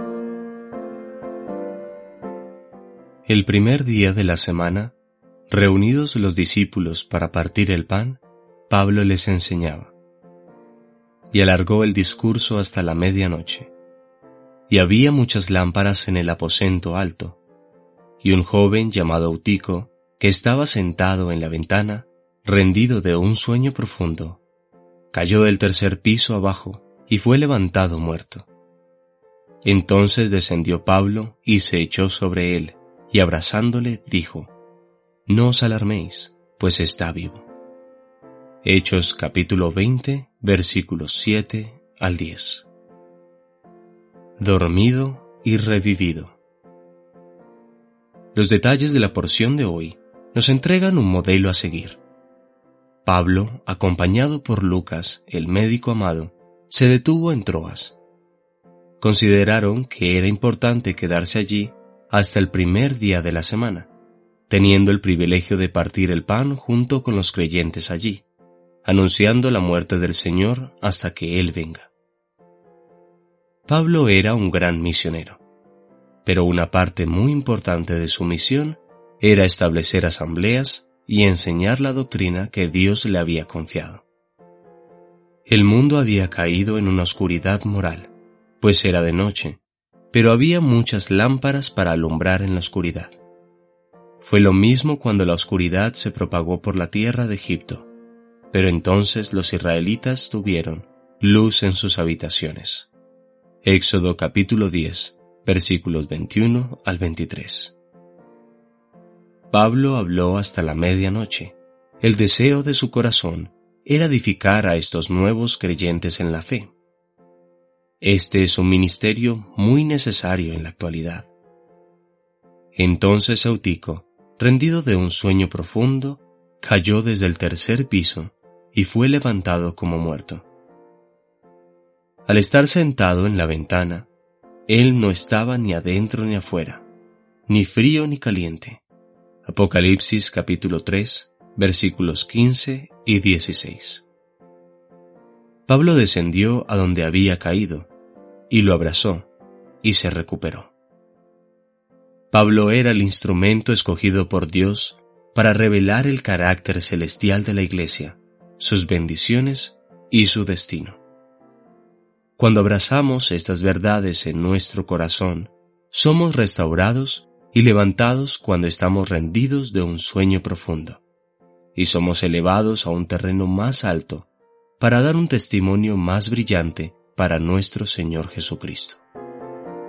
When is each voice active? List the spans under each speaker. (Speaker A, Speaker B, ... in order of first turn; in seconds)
Speaker A: 3.3-5.0, 5.5-9.9, 11.3-13.7, 14.7-17.4, 18.2-24.4, 25.1-28.5, 29.6-34.5, 35.3-37.5, 38.6-42.7, 44.4-46.4, 48.3-52.0, 53.0-58.0, 59.0-63.9, 64.5-68.3, 68.8-71.9, 73.7-75.4, 76.2-84.1, 85.5-89.6, 90.1-93.2, 94.2-97.9, 98.5-102.9, 103.6-107.8, 109.5-116.7, 118.0-121.3, 122.8-130.5, 132.3-134.1, 134.7-136.9, 137.5-138.8, 139.4-144.1, 145.7-147.9, 148.5-149.3, 149.8-150.7, 152.3-161.0, 162.4-171.0, 171.8-179.0